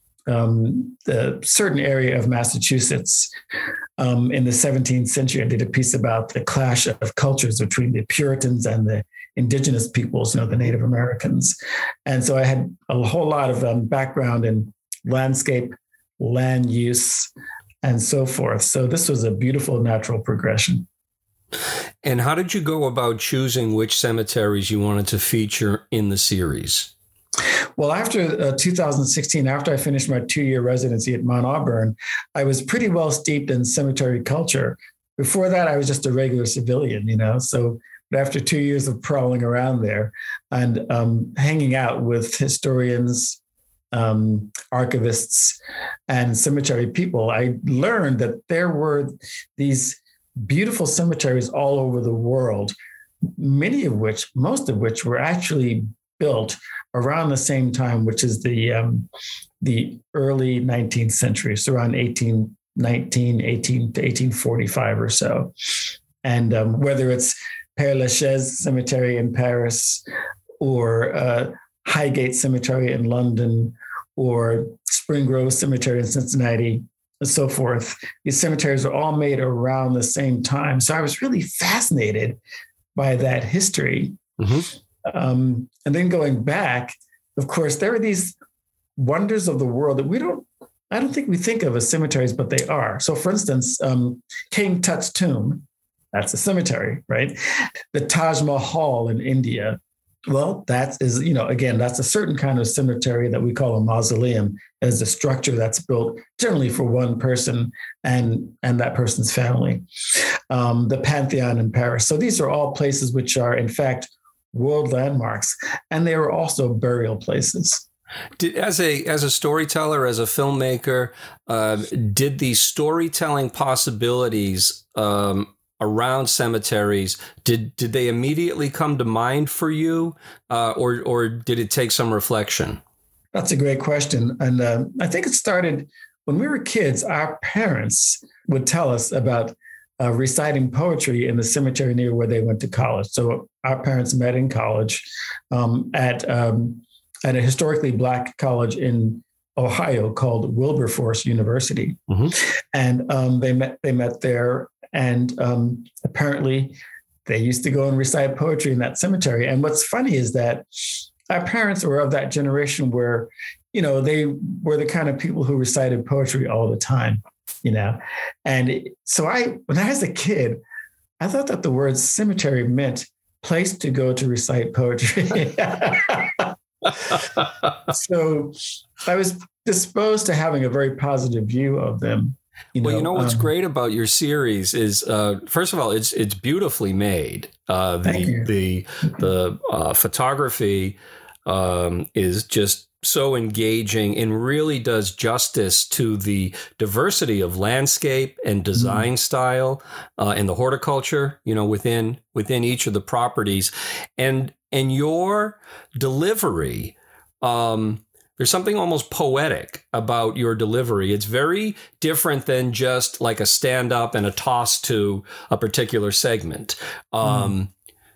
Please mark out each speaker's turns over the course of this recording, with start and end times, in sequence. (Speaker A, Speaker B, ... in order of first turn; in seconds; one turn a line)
Speaker A: 0.3-3.3
Speaker A: 4.0-17.3
Speaker A: 17.8-20.9
Speaker B: 22.0-26.9
Speaker A: 27.8-43.4
Speaker A: 43.9-52.8
Speaker A: 53.4-59.1
Speaker A: 59.6-65.5
Speaker A: 66.2-70.0
Speaker A: 70.6-82.4
Speaker A: 83.0-84.2
Speaker B: 84.4-84.7
Speaker A: 85.1-88.4
Speaker A: 89.0-97.4
Speaker A: 97.9-109.8
Speaker A: 110.5-117.8
Speaker B: 118.4-132.8
Speaker A: 133.3-152.0
Speaker B: 152.1-152.3
Speaker A: 152.7-160.7
Speaker A: 161.3-170.6
Speaker A: 171.2-176.5
Speaker A: 177.9-183.5
Speaker B: 182.8-217.7
Speaker A: 188.1-188.5
Speaker A: 217.2-217.6